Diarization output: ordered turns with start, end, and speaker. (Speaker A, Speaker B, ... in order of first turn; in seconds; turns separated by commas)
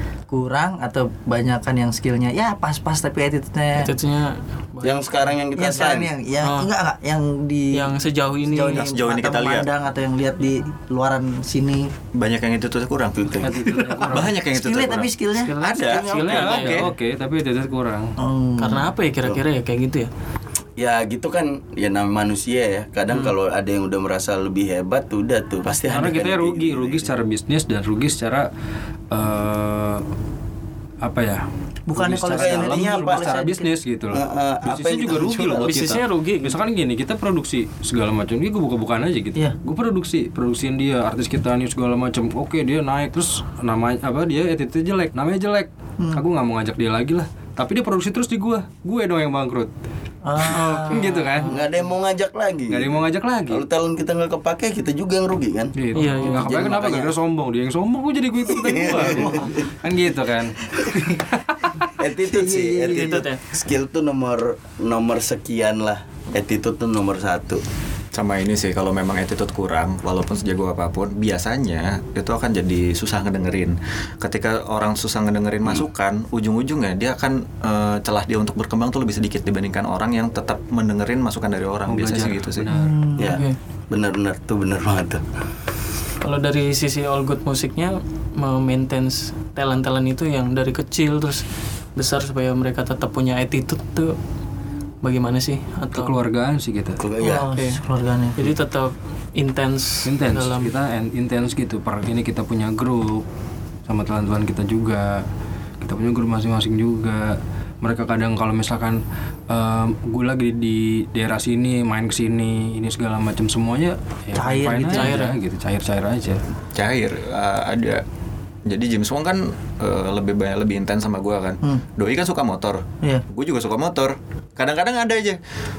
Speaker A: 0.3-3.9, Speaker B: 3.8-5.3, Speaker C: 4.8-6.1, Speaker A: 5.5-11.9, Speaker B: 6.4-6.7, Speaker B: 7.7-8.8, Speaker D: 8.7-9.7, Speaker D: 12.1-16.9, Speaker E: 13.4-14.3, Speaker A: 13.9-16.4, Speaker B: 15.4-16.8, Speaker E: 16.1-18.1, Speaker A: 18.2-18.9, Speaker B: 18.6-20.1, Speaker C: 20.8-27.1, Speaker E: 25.9-28.5, Speaker E: 29.1-30.0, Speaker E: 31.0-31.4, Speaker A: 31.9-33.7, Speaker E: 31.9-49.7, Speaker C: 32.2-33.4, Speaker C: 34.1-35.8, Speaker B: 35.6-36.6, Speaker A: 50.2-51.1, Speaker B: 50.5-51.7, Speaker E: 50.8-51.5, Speaker C: 51.5-57.1, Speaker E: 52.7-53.6, Speaker E: 55.7-61.9, Speaker B: 55.9-56.6, Speaker C: 58.5-59.6, Speaker C: 62.0-67.6, Speaker A: 62.2-63.2, Speaker B: 62.9-63.4, Speaker D: 68.1-82.7, Speaker E: 81.9-83.0, Speaker A: 82.7-83.5, Speaker C: 83.2-85.2, Speaker B: 83.3-83.6, Speaker B: 86.2-94.2, Speaker B: 95.0-96.2, Speaker E: 95.9-97.0, Speaker C: 97.0-97.5, Speaker A: 97.2-98.4, Speaker B: 97.5-97.8, Speaker B: 98.4-100.7, Speaker E: 100.0-103.2, Speaker E: 103.9-105.2, Speaker E: 105.8-116.4, Speaker A: 114.3-115.2, Speaker B: 114.9-115.3, Speaker D: 116.7-118.0, Speaker D: 118.7-125.4